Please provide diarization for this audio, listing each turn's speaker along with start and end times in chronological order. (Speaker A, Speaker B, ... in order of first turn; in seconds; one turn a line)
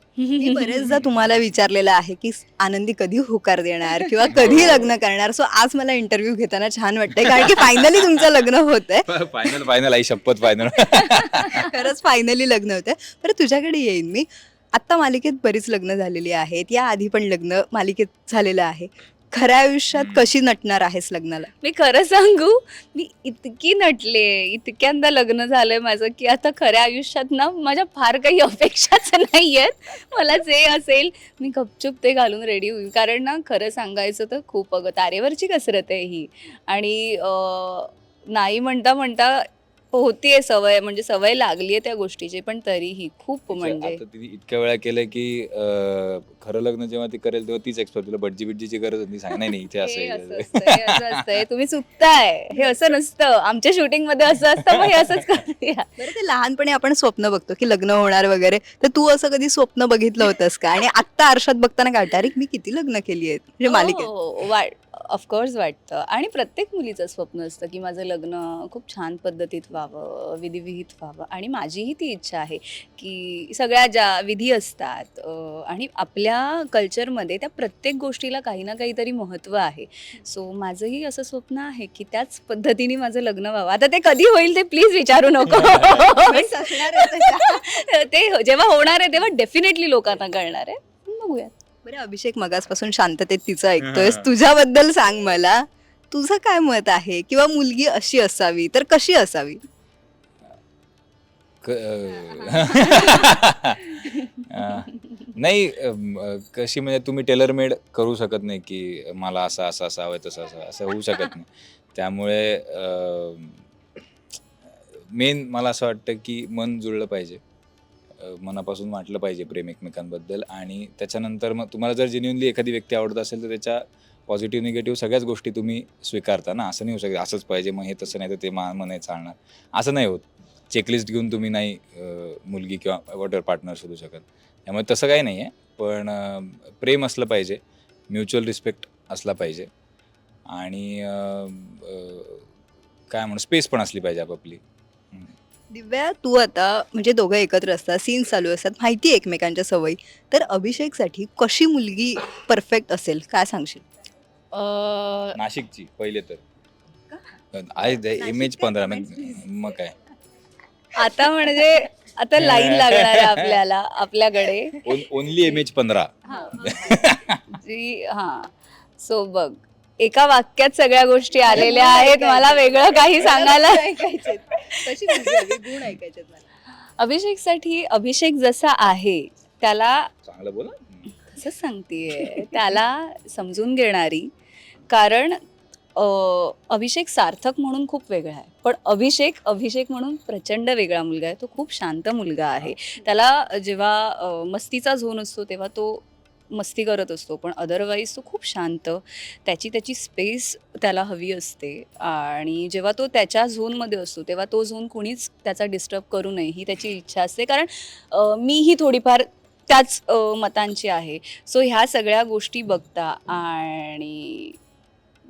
Speaker A: 0.2-0.8
Speaker B: 0.4-9.1
Speaker C: 4.3-4.9
Speaker C: 7.3-8.2
Speaker C: 9.1-11.7
Speaker A: 11.1-11.5
Speaker B: 11.7-21.5
Speaker C: 19.9-20.3
Speaker A: 21.6-44.0
Speaker C: 43.5-51.3
Speaker A: 49.8-56.0
Speaker B: 56.0-64.1
Speaker A: 63.7-91.5
Speaker B: 85.9-87.7
Speaker B: 91.8-99.6
Speaker C: 93.8-94.3
Speaker C: 101.6-113.6
Speaker A: 102.5-103.3
Speaker C: 115.1-117.4
Speaker C: 118.2-139.7
Speaker C: 140.5-142.5
Speaker C: 143.1-144.6
Speaker B: 145.7-153.8
Speaker A: 154.5-155.4
Speaker C: 155.3-156.4
Speaker C: 157.5-159.9
Speaker B: 157.9-159.5
Speaker A: 161.0-164.9
Speaker C: 162.4-163.6
Speaker C: 164.8-167.4
Speaker B: 166.3-167.1
Speaker A: 167.5-174.0
Speaker B: 171.5-176.4
Speaker A: 174.7-175.7
Speaker A: 177.0-180.1
Speaker C: 180.2-181.1
Speaker A: 181.3-184.3
Speaker A: 184.9-185.4
Speaker A: 186.0-214.6